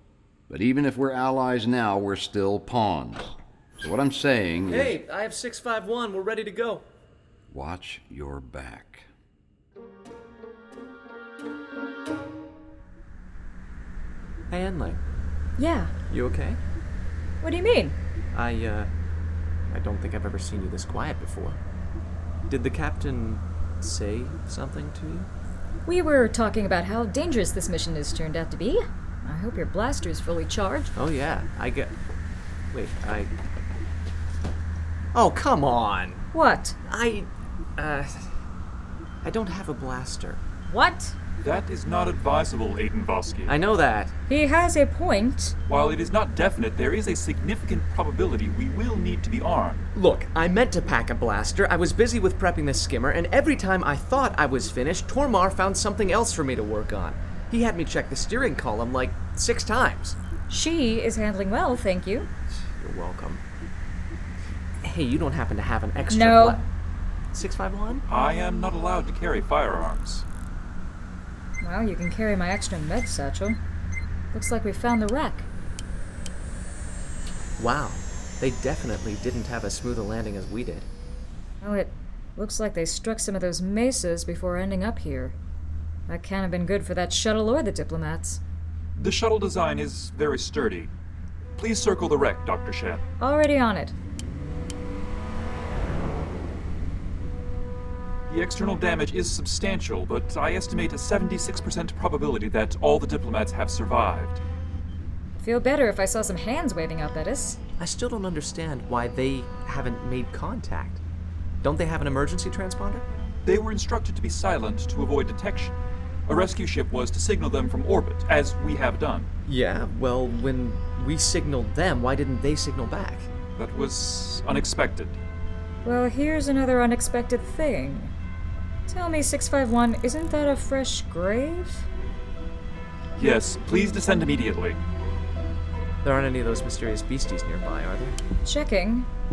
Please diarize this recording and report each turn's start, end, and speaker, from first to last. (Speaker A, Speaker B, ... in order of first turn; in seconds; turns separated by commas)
Speaker A: 0.5-5.0, Speaker B: 4.7-6.8, Speaker A: 7.5-9.1, Speaker B: 14.5-15.0, Speaker C: 15.6-15.9, Speaker B: 16.1-16.6, Speaker C: 17.4-18.0, Speaker B: 18.3-18.9, Speaker B: 19.7-21.6, Speaker B: 22.5-25.3, Speaker C: 25.8-30.9, Speaker B: 30.9-31.9, Speaker B: 32.7-33.3, Speaker B: 35.1-36.2, Speaker C: 36.3-36.8, Speaker B: 36.8-38.3, Speaker B: 39.2-40.4, Speaker C: 40.7-41.2, Speaker D: 41.4-43.5, Speaker B: 43.5-44.1, Speaker C: 44.3-45.5, Speaker D: 45.7-49.9, Speaker B: 49.9-60.2, Speaker C: 60.5-62.3, Speaker B: 62.5-63.4, Speaker B: 64.8-66.6, Speaker C: 66.1-66.7, Speaker B: 67.3-68.0, Speaker D: 68.1-70.2, Speaker C: 71.6-73.6, Speaker C: 74.3-75.5, Speaker B: 77.6-80.9, Speaker C: 81.6-85.4, Speaker C: 86.1-88.4, Speaker D: 89.0-90.9, Speaker D: 91.6-93.0, Speaker C: 93.2-94.0, Speaker D: 98.3-104.4, Speaker C: 105.4-107.6, Speaker B: 107.8-111.0, Speaker B: 111.6-113.1, Speaker D: 113.4-115.8, Speaker D: 116.3-119.3, Speaker B: 119.5-123.3, Speaker D: 123.6-125.2, Speaker C: 125.8-128.1, Speaker C: 128.9-131.9, Speaker D: 133.2-134.8, Speaker B: 136.0-138.2, Speaker C: 138.4-139.1